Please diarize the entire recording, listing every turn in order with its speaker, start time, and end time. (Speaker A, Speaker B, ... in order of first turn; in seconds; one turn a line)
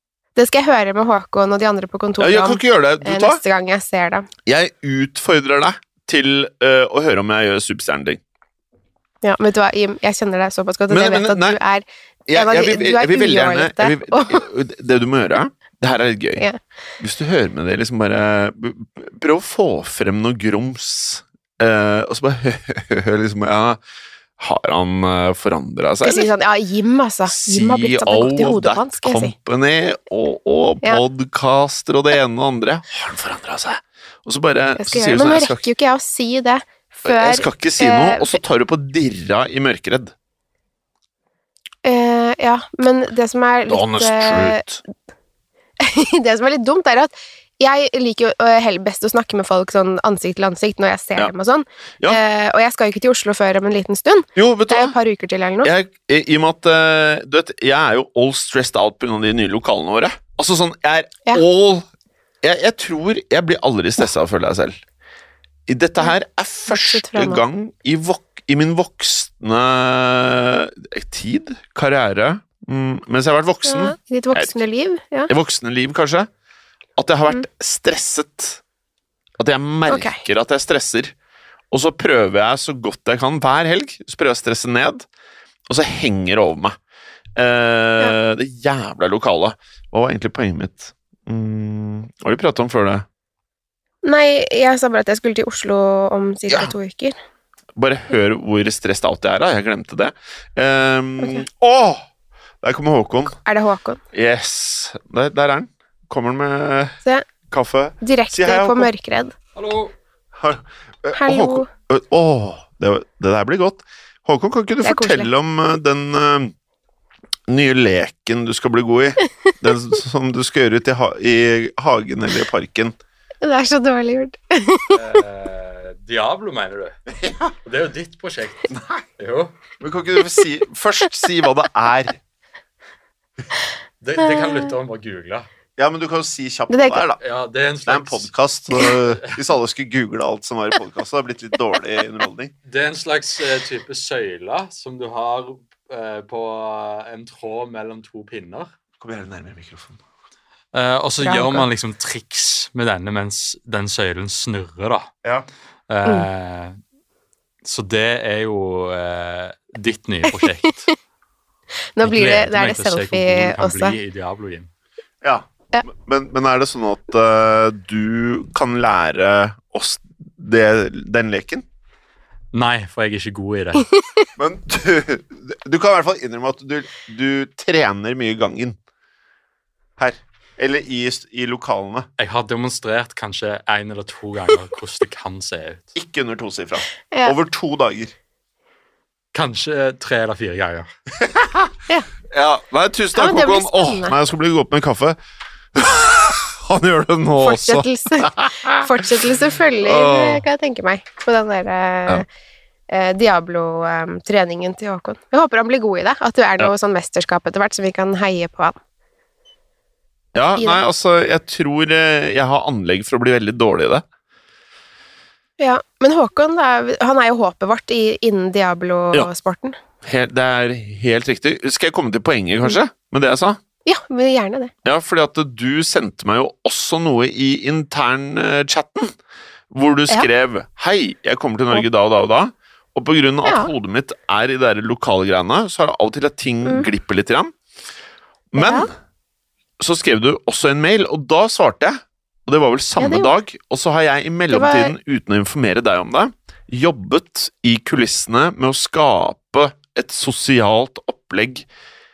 Speaker A: 0.3-4.3
Speaker B: 2.2-3.4
Speaker B: 4.5-8.2
Speaker A: 9.2-14.4
Speaker B: 10.9-11.6
Speaker B: 12.3-16.4
Speaker B: 17.0-23.8
Speaker B: 24.4-26.3
Speaker A: 26.0-29.3
Speaker B: 27.3-35.6
Speaker A: 34.8-38.4
Speaker B: 37.0-40.1
Speaker A: 41.8-44.6
Speaker B: 43.7-44.8
Speaker A: 45.8-55.7
Speaker B: 54.4-54.9
Speaker B: 55.6-61.9
Speaker B: 62.4-64.8
Speaker B: 65.7-74.5
Speaker A: 66.7-67.4
Speaker A: 73.6-75.3
Speaker B: 75.3-76.3
Speaker B: 77.0-78.6
Speaker B: 79.4-81.1
Speaker A: 79.9-80.2
Speaker B: 81.7-85.0
Speaker B: 85.7-86.8
Speaker B: 87.3-93.0
Speaker A: 94.0-97.2
Speaker B: 97.8-102.0
Speaker B: 102.6-103.4
Speaker A: 103.4-104.0
Speaker B: 104.1-107.0
Speaker B: 107.5-108.9
Speaker A: 108.0-109.3
Speaker C: 109.5-109.9
Speaker B: 110.3-116.5
Speaker A: 111.1-111.7
Speaker A: 114.8-115.3
Speaker B: 117.5-122.9
Speaker A: 123.4-125.0
Speaker C: 124.9-127.0
Speaker B: 127.2-127.5
Speaker C: 127.6-129.6
Speaker B: 128.7-129.0
Speaker B: 129.8-132.2
Speaker C: 134.0-135.5
Speaker A: 134.2-134.6
Speaker B: 135.8-137.2
Speaker A: 136.7-137.0
Speaker C: 137.2-138.3
Speaker B: 137.9-142.5
Speaker C: 142.7-148.7
Speaker B: 149.0-150.0
Speaker C: 150.7-155.1
Speaker A: 151.2-151.6
Speaker C: 155.9-156.8
Speaker C: 157.6-160.9
Speaker A: 162.0-164.0
Speaker C: 162.0-164.7
Speaker B: 165.2-171.6
Speaker C: 172.5-173.9
Speaker B: 174.4-178.8
Speaker B: 180.0-182.1
Speaker C: 182.2-185.9
Speaker B: 185.9-188.1
Speaker A: 187.1-187.3
Speaker C: 189.3-190.9
Speaker B: 191.2-191.7
Speaker B: 192.3-195.2
Speaker A: 193.1-194.2
Speaker B: 195.7-199.2
Speaker A: 197.4-202.2
Speaker B: 199.8-200.4
Speaker A: 202.9-208.8
Speaker B: 210.3-214.0
Speaker A: 215.6-219.8
Speaker B: 220.0-223.6
Speaker A: 223.8-224.7
Speaker B: 224.8-229.1
Speaker B: 229.7-237.5
Speaker A: 233.4-233.7
Speaker B: 238.5-238.9
Speaker A: 238.6-238.9
Speaker B: 239.8-251.7
Speaker A: 243.0-243.3
Speaker A: 244.5-244.9